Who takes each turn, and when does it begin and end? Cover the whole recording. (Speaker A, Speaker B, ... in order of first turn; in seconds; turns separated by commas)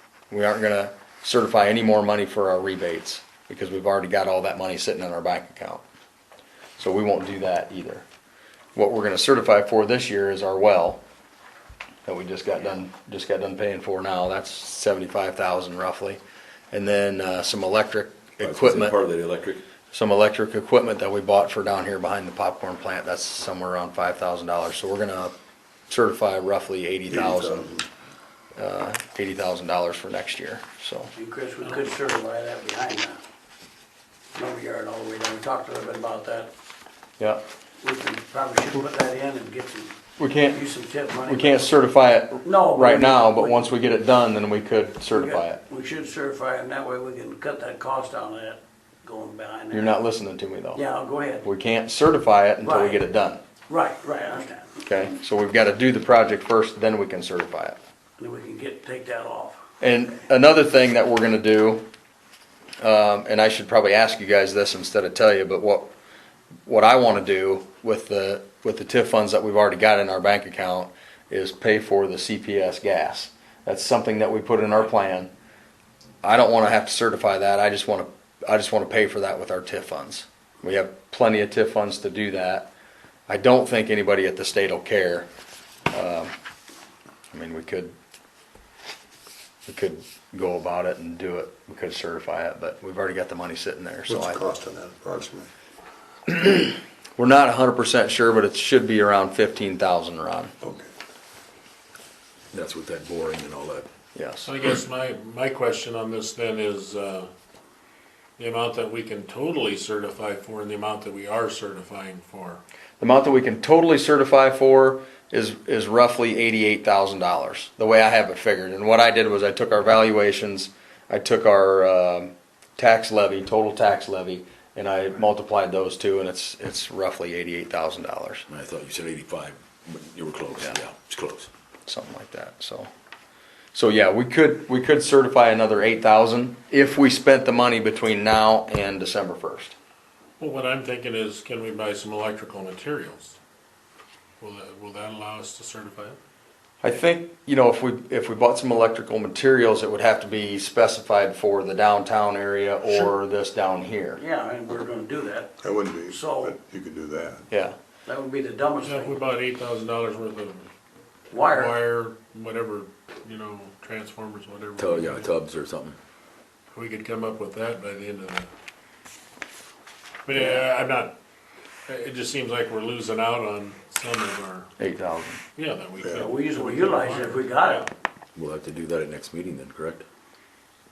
Speaker A: 0.3-5.8, Speaker A: 6.8-8.0, Speaker A: 8.7-11.0, Speaker A: 12.1-16.2, Speaker A: 16.7-18.9, Speaker B: 18.4-19.6, Speaker A: 19.9-25.3, Speaker A: 25.9-27.7, Speaker C: 27.1-27.9, Speaker A: 28.6-31.1, Speaker D: 31.1-33.2, Speaker D: 34.3-36.5, Speaker D: 37.8-39.9, Speaker A: 40.2-40.6, Speaker D: 40.5-41.7, Speaker A: 41.3-45.6, Speaker D: 42.4-43.6, Speaker D: 45.1-50.0, Speaker A: 49.7-50.8, Speaker D: 50.7-51.5, Speaker A: 51.4-53.4, Speaker D: 52.6-53.0, Speaker D: 53.7-54.8, Speaker A: 54.8-57.8, Speaker D: 58.2-59.6, Speaker A: 59.8-61.8, Speaker A: 62.8-65.9, Speaker A: 66.7-75.3, Speaker A: 76.2-82.7, Speaker A: 83.3-85.3, Speaker A: 85.9-86.3, Speaker A: 87.3-87.9, Speaker A: 89.7-94.5, Speaker C: 94.1-95.5, Speaker A: 96.3-100.5, Speaker C: 100.6-100.9, Speaker B: 102.5-103.9, Speaker A: 104.1-104.5, Speaker E: 104.4-107.3, Speaker E: 108.4-112.6, Speaker A: 113.0-128.4, Speaker B: 128.5-131.5, Speaker A: 131.8-132.9, Speaker A: 133.7-139.7, Speaker E: 140.4-143.4, Speaker E: 144.4-146.2, Speaker A: 146.8-154.2, Speaker D: 154.2-156.5, Speaker C: 155.6-157.4, Speaker A: 157.5-157.8, Speaker D: 158.1-159.2, Speaker E: 158.8-160.7, Speaker D: 161.3-161.8, Speaker E: 161.4-165.3, Speaker B: 164.8-166.0, Speaker E: 166.7-168.5, Speaker E: 170.2-171.1, Speaker D: 170.3-170.6, Speaker E: 171.9-174.7, Speaker A: 174.8-175.4, Speaker E: 175.6-177.9, Speaker C: 176.0-176.3, Speaker D: 176.2-177.9, Speaker B: 178.3-180.0